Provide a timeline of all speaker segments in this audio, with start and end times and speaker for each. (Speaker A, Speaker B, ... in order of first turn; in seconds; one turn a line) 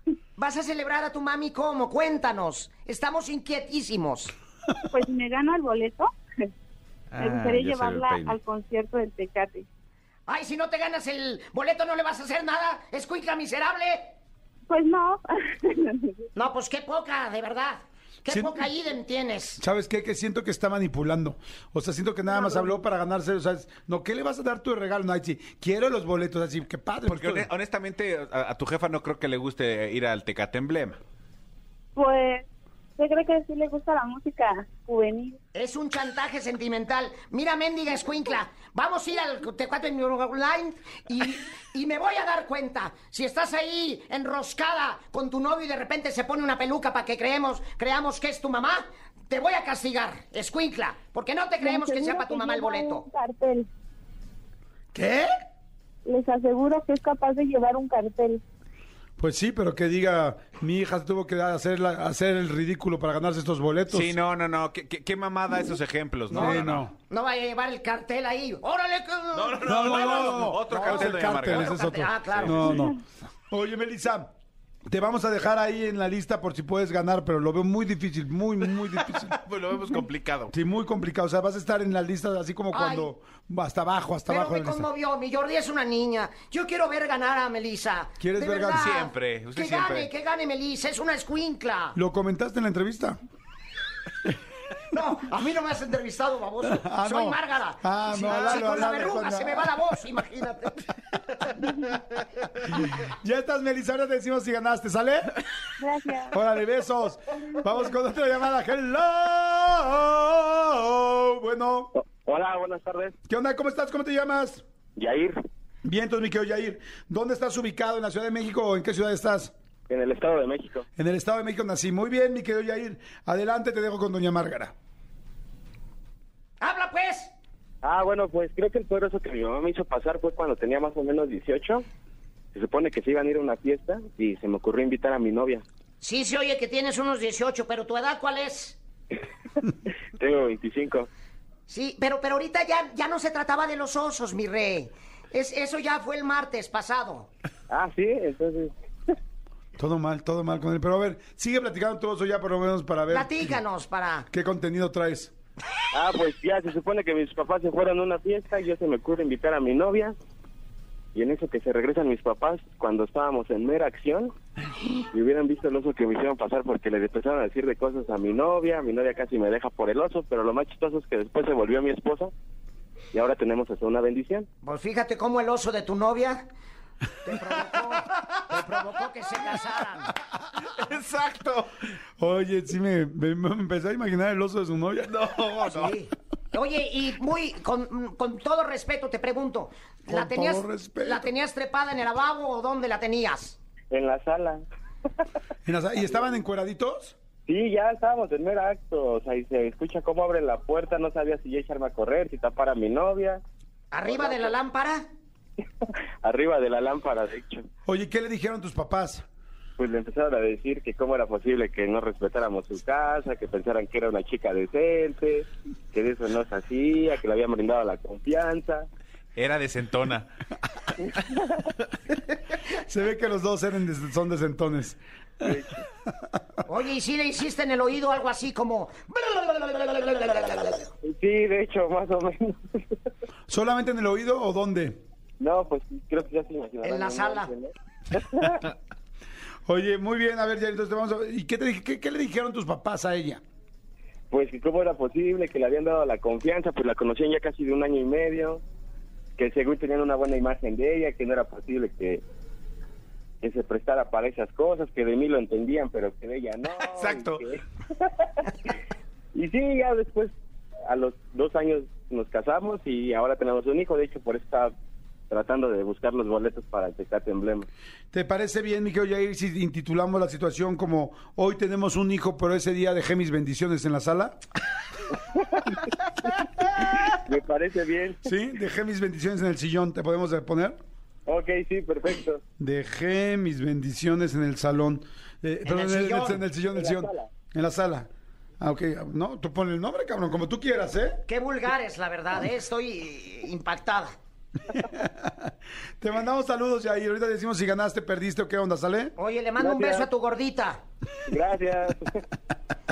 Speaker A: 0.4-4.3
Speaker B: 4.9-6.5
Speaker C: 7.1-8.4
Speaker B: 7.2-9.7
Speaker A: 10.3-14.1
Speaker B: 14.7-16.2
Speaker A: 16.4-19.6
Speaker D: 18.3-18.7
Speaker D: 19.6-27.5
Speaker B: 22.3-22.8
Speaker C: 27.1-31.0
Speaker B: 31.9-32.5
Speaker B: 33.0-35.4
Speaker A: 35.5-53.0
Speaker B: 51.6-53.7
Speaker D: 54.9-55.3
Speaker B: 56.0-58.4
Speaker D: 59.2-64.1
Speaker C: 63.9-66.9
Speaker A: 66.3-72.9
Speaker D: 66.3-66.9
Speaker C: 69.3-72.9
Speaker D: 69.6-73.0
Speaker D: 73.5-74.3
Speaker D: 74.8-79.4
Speaker C: 79.0-80.5
Speaker D: 80.5-84.9
Speaker A: 82.7-83.1
Speaker A: 84.3-92.0
Speaker D: 88.2-88.9
Speaker C: 88.7-90.1
Speaker D: 91.9-93.2
Speaker A: 94.9-100.8
Speaker D: 96.6-99.9
Speaker C: 98.2-99.1
Speaker D: 102.6-105.3
Speaker B: 105.8-106.4
Speaker D: 106.3-111.9
Speaker E: 111.9-113.1
Speaker D: 113.3-114.6
Speaker E: 115.0-115.4
Speaker D: 115.8-119.5
Speaker E: 119.9-120.8
Speaker D: 121.0-124.7
Speaker A: 126.6-127.3
Speaker E: 127.8-131.8
Speaker E: 132.5-135.6
Speaker A: 136.0-138.8
Speaker E: 140.2-141.1
Speaker A: 141.7-147.3
Speaker E: 147.7-148.7
Speaker D: 149.8-153.6
Speaker A: 153.1-154.3
Speaker D: 154.3-155.3
Speaker E: 155.9-160.2
Speaker E: 161.1-164.3
Speaker E: 165.1-172.3
Speaker E: 173.1-174.5
Speaker A: 174.6-176.5
Speaker A: 177.2-180.1
Speaker C: 180.6-181.7
Speaker D: 182.2-185.3
Speaker C: 185.1-185.9
Speaker A: 185.7-193.6
Speaker D: 190.1-191.3
Speaker E: 193.9-194.6
Speaker D: 195.6-197.2
Speaker E: 197.5-203.4
Speaker A: 203.9-205.1
Speaker E: 204.1-204.5
Speaker E: 206.2-207.7
Speaker D: 207.8-209.2
Speaker E: 209.8-218.9
Speaker C: 219.3-220.3
Speaker D: 222.8-225.0
Speaker E: 225.4-225.8
Speaker A: 226.7-230.9
Speaker E: 231.0-233.0
Speaker D: 233.5-235.0
Speaker E: 235.4-238.6
Speaker A: 236.8-237.5
Speaker D: 239.7-243.4
Speaker E: 244.3-248.6
Speaker E: 249.4-252.2
Speaker E: 253.4-257.6
Speaker C: 256.8-257.4
Speaker E: 259.3-260.3
Speaker E: 260.9-264.7
Speaker E: 265.3-267.7
Speaker D: 268.1-274.4
Speaker E: 276.3-278.2
Speaker D: 278.2-280.8
Speaker E: 281.2-282.4
Speaker D: 282.6-288.1
Speaker A: 285.6-286.4
Speaker E: 286.7-287.3
Speaker D: 288.6-291.2
Speaker A: 291.3-294.1
Speaker D: 294.7-299.1
Speaker A: 299.2-300.8
Speaker E: 299.6-300.1
Speaker E: 301.3-302.2